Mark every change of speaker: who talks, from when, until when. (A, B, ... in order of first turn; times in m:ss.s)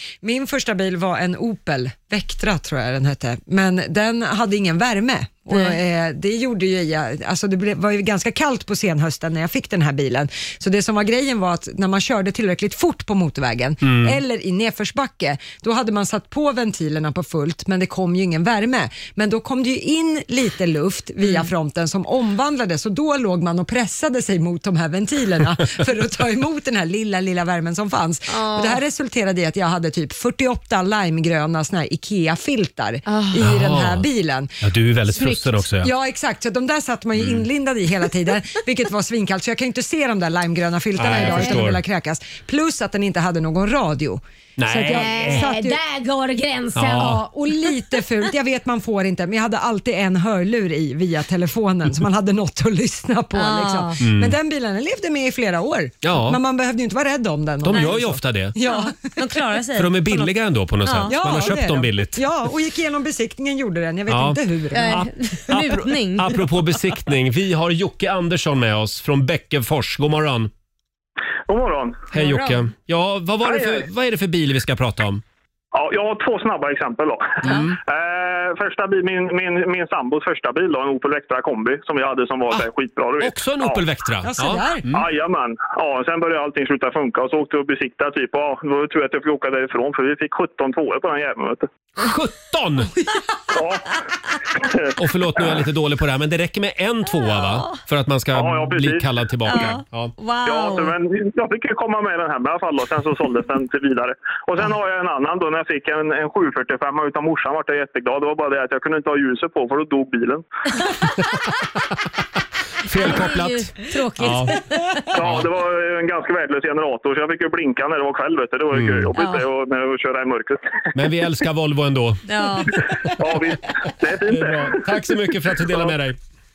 0:00.2-0:34.5 A
0:05.5-0:05.8 B
0:13.8-0:14.2 C
0:28.3-0:28.8 B
0:33.1-0:33.4 B
0:33.4-0:34.1 C
0:34.6-0:35.9 C
0:35.2-0:35.6 B
0:35.8-0:45.8 A
0:37.2-0:37.4 C
0:41.0-0:41.8 C
0:41.1-0:41.6 B
0:44.6-0:45.5 C
0:44.9-0:48.0 B
0:46.8-0:47.2 C
0:46.9-0:59.3 A
0:53.4-0:54.0 B
0:54.0-0:54.4 C
0:56.0-0:56.4 C
0:57.6-0:58.6 C
0:58.6-1:00.3 B
0:59.8-1:02.2 C
1:00.8-1:01.2 B
1:01.1-1:05.0 A
1:04.1-1:10.5 C
1:04.7-1:06.5 B
1:11.5-1:12.1 D
1:12.1-1:15.2 C
1:12.2-1:12.6 B
1:13.5-1:13.8 D
1:15.7-1:23.9 D
1:17.4-1:17.8 C
1:23.2-1:25.1 C
1:24.2-1:24.8 A
1:24.9-1:31.7 D
1:32.0-1:32.9 C
1:33.5-1:33.9 D
1:34.6-1:34.9 D
1:35.0-1:40.1 C
1:37.3-1:37.8 B
1:38.3-1:39.1 D
1:39.5-1:40.9 B
1:40.4-1:50.4 D
1:51.2-1:51.5 C
1:52.8-1:54.6 C
1:53.0-1:55.0 B
1:55.1-2:00.6 D
1:55.2-1:55.5 C
1:58.7-1:59.1 C
1:59.2-1:59.5 B
2:00.9-2:03.1 C
2:02.3-2:02.8 B
2:03.2-2:04.8 D
2:04.3-2:06.2 C
2:05.7-2:06.0 D